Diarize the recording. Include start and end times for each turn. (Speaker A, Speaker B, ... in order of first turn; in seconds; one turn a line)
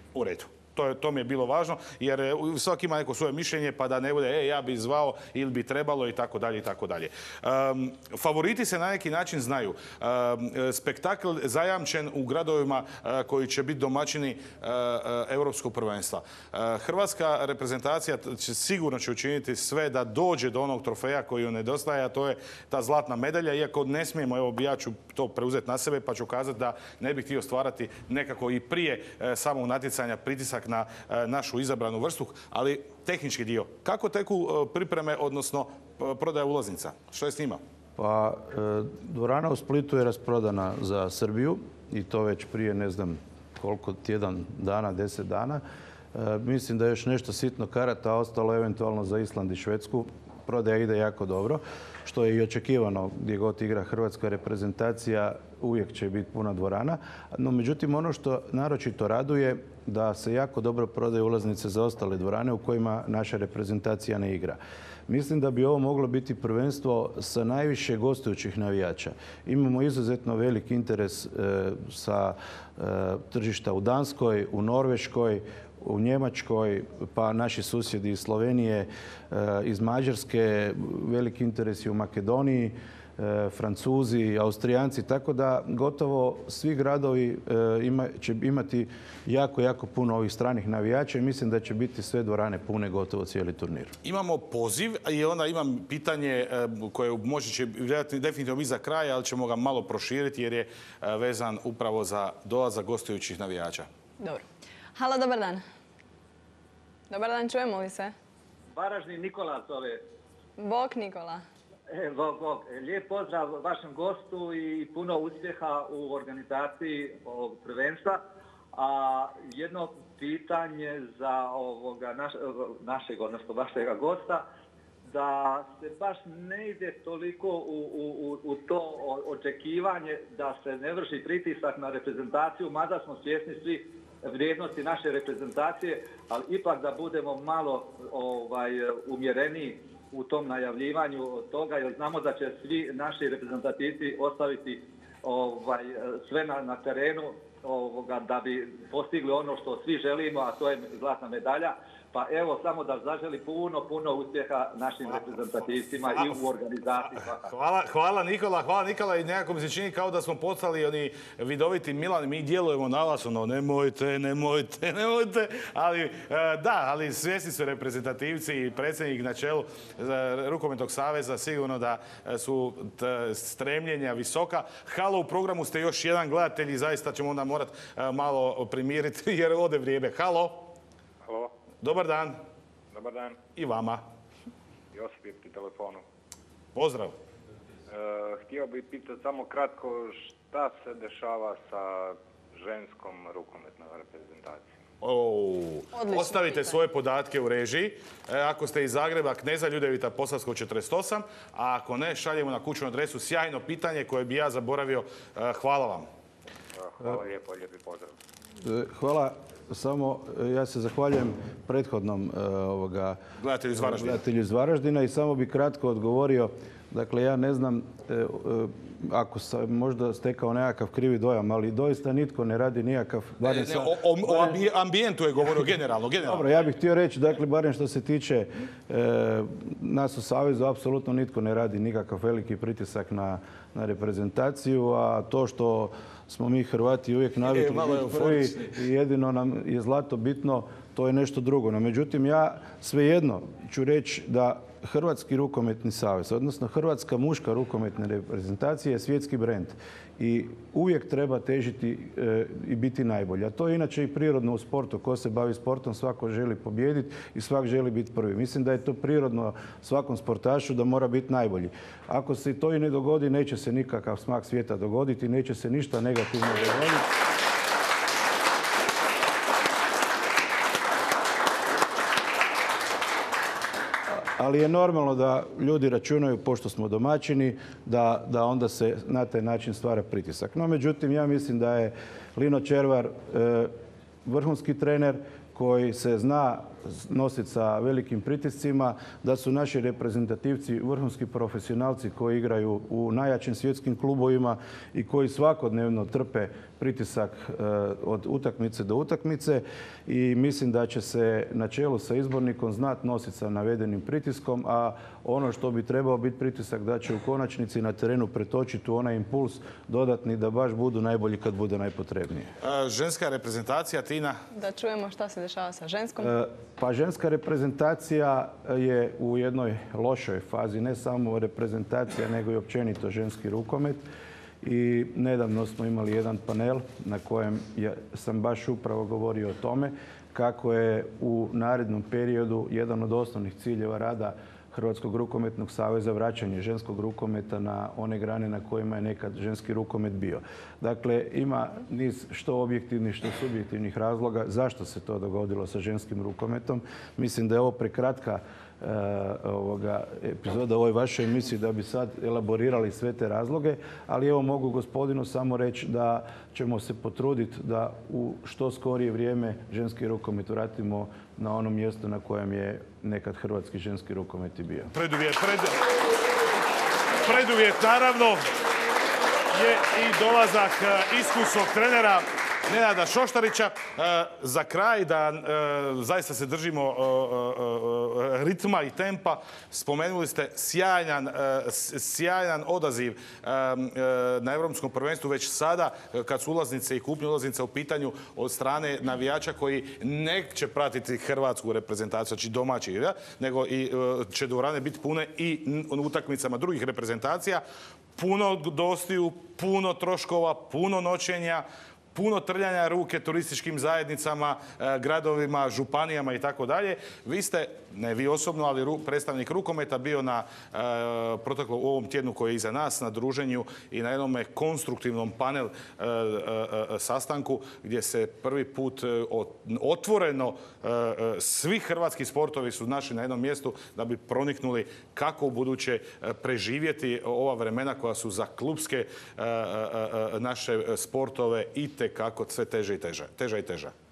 Speaker A: 0.1-37.6
Speaker B: 38.0-45.6
Speaker B: 46.1-93.9
Speaker A: 94.0-103.9
Speaker C: 104.2-104.4
Speaker C: 105.0-105.6
Speaker C: 107.1-108.1
Speaker D: 108.8-110.0
Speaker C: 110.6-111.4
Speaker D: 111.9-118.2
Speaker D: 118.8-124.4
Speaker D: 125.1-157.5
Speaker A: 155.1-156.4
Speaker A: 157.0-180.7
Speaker E: 181.2-181.5
Speaker A: 181.8-182.4
Speaker E: 182.9-183.4
Speaker A: 183.6-184.0
Speaker E: 184.9-186.0
Speaker A: 186.8-187.1
Speaker E: 187.9-194.7
Speaker A: 195.0-206.1
Speaker C: 195.9-196.8
Speaker E: 206.8-208.1
Speaker B: 208.6-213.2
Speaker A: 213.4-214.2
Speaker B: 213.8-224.6
Speaker A: 223.4-226.5
Speaker B: 226.2-267.1
Speaker A: 237.4-238.7
Speaker B: 274.1-283.7
Speaker B: 284.2-312.5
Speaker A: 312.6-314.4
Speaker C: 314.5-316.3
Speaker B: 316.2-324.0
Speaker B: 324.6-364.9
Speaker A: 364.9-365.8
Speaker A: 367.2-368.5
Speaker A: 369.5-397.6
Speaker A: 398.1-433.9